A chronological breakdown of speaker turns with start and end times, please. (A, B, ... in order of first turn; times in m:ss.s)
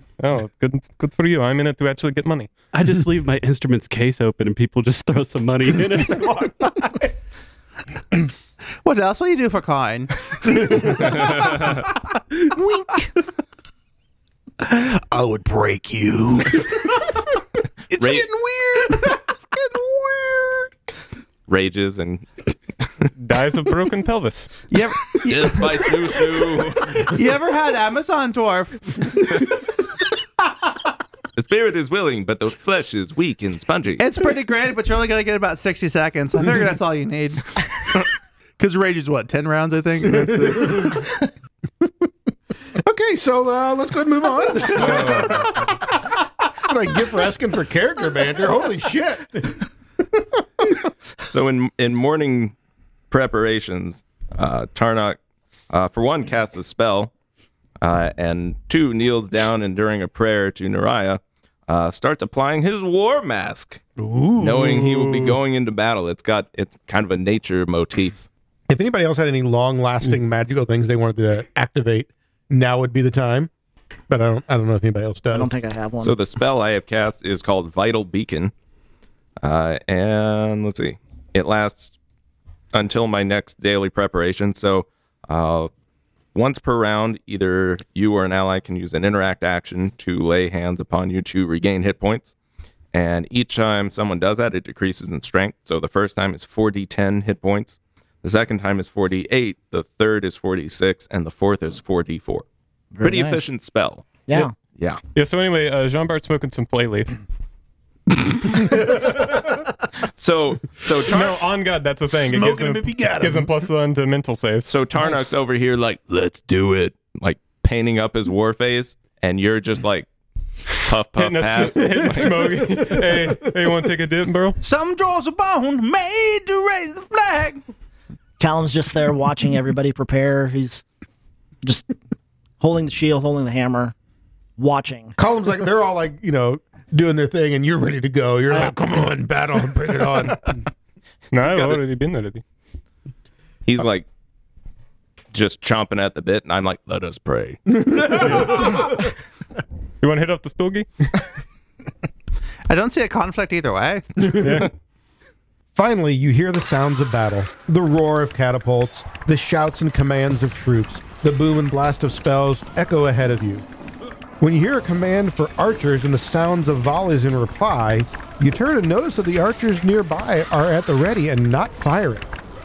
0:00.2-0:02.5 A
0:02.7-0:07.1 B
0:08.8-0:11.4 C
0:11.2-0:11.8 D
0:12.5-0:13.1 E
0:14.6-0:16.7 C
0:17.9-0:18.3 D
0:17.9-0:18.3 C
0:19.7-0:20.6 C
0:21.5-0:22.3 D
0:23.2-0:24.5 A
0:24.7-0:29.4 C
0:25.1-0:27.2 D
0:31.4-0:34.1 D
0:34.0-0:37.6 C
0:38.6-0:41.0 C
0:42.7-0:45.8 F
0:44.7-0:45.6 D
0:46.6-0:49.6 F
0:50.2-0:50.6 F
0:51.2-0:52.6 D
0:53.1-0:55.2 D
0:55.7-0:57.1 D
0:57.8-1:03.8 D
1:04.1-1:05.0 F
1:04.4-1:08.3 D
1:08.7-1:13.5 F
1:14.1-1:15.5 F
1:15.3-1:16.2 E
1:16.0-1:18.5 D
1:19.4-1:22.0 D
1:22.7-1:25.7 D
1:26.3-1:32.3 D
1:32.9-1:42.5 D
1:43.0-1:43.5 E
1:43.0-1:45.0 D
1:44.3-1:44.5 E
1:45.2-1:47.2 A
1:50.2-1:51.5 D
1:51.1-1:54.7 A
1:52.1-1:53.5 F
1:54.7-2:00.1 D
2:00.7-2:03.0 D
2:01.2-2:04.6 A
2:04.6-2:07.6 C
2:08.4-2:10.8 E
2:11.6-2:11.9 E
2:12.6-2:14.0 E
2:14.6-2:15.2 E
2:15.2-2:20.5 F
2:21.3-2:22.4 A
2:21.4-2:21.8 D
2:23.7-2:24.1 D
2:25.3-2:28.7 D
2:28.1-2:28.9 A
2:30.0-2:30.9 A
2:32.7-2:34.5 C
2:34.3-2:34.7 A
2:35.8-2:43.6 F
2:44.4-2:52.3 F